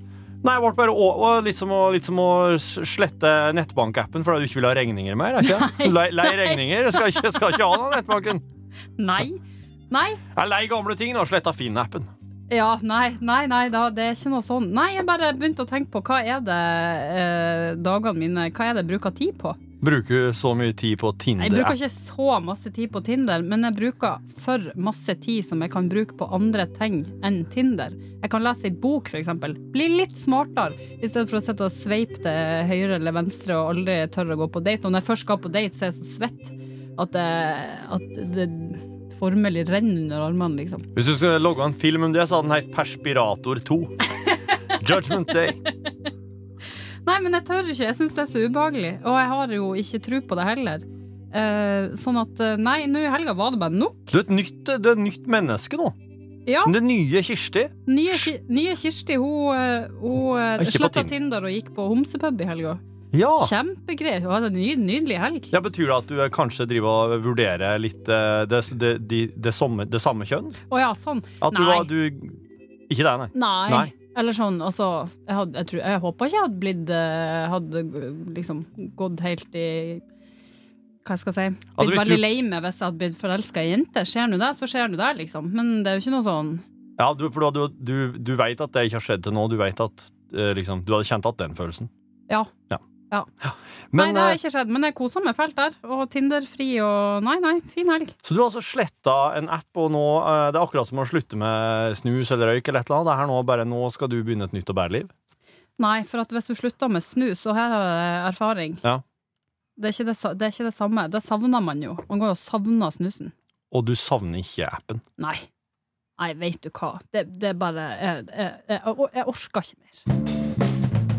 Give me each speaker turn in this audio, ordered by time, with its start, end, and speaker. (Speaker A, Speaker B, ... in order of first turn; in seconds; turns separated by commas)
Speaker A: 0.4-8.4, Speaker B: 5.4-7.7, Speaker B: 9.0-10.2, Speaker A: 10.3-12.1, Speaker B: 12.5-19.6, Speaker A: 19.8-21.8, Speaker B: 21.4-40.9, Speaker A: 40.9-44.0, Speaker A: 44.8-45.6, Speaker B: 47.0-54.1, Speaker A: 54.1-55.9, Speaker B: 56.5-56.7, Speaker A: 56.6-58.3, Speaker B: 57.9-62.8, Speaker A: 60.6-61.1, Speaker A: 63.1-63.5, Speaker B: 63.4-65.5, Speaker A: 65.5-70.6, Speaker B: 70.7-71.9, Speaker A: 71.4-73.9, Speaker B: 73.3-80.0, Speaker B: 81.0-86.6, Speaker A: 81.8-82.2, Speaker A: 87.0-91.9, Speaker A: 93.4-94.4, Speaker B: 93.9-98.1, Speaker A: 98.2-105.1, Speaker B: 105.8-108.8, Speaker B: 109.8-113.3, Speaker A: 113.7-115.0, Speaker B: 115.2-115.5, Speaker B: 116.2-120.0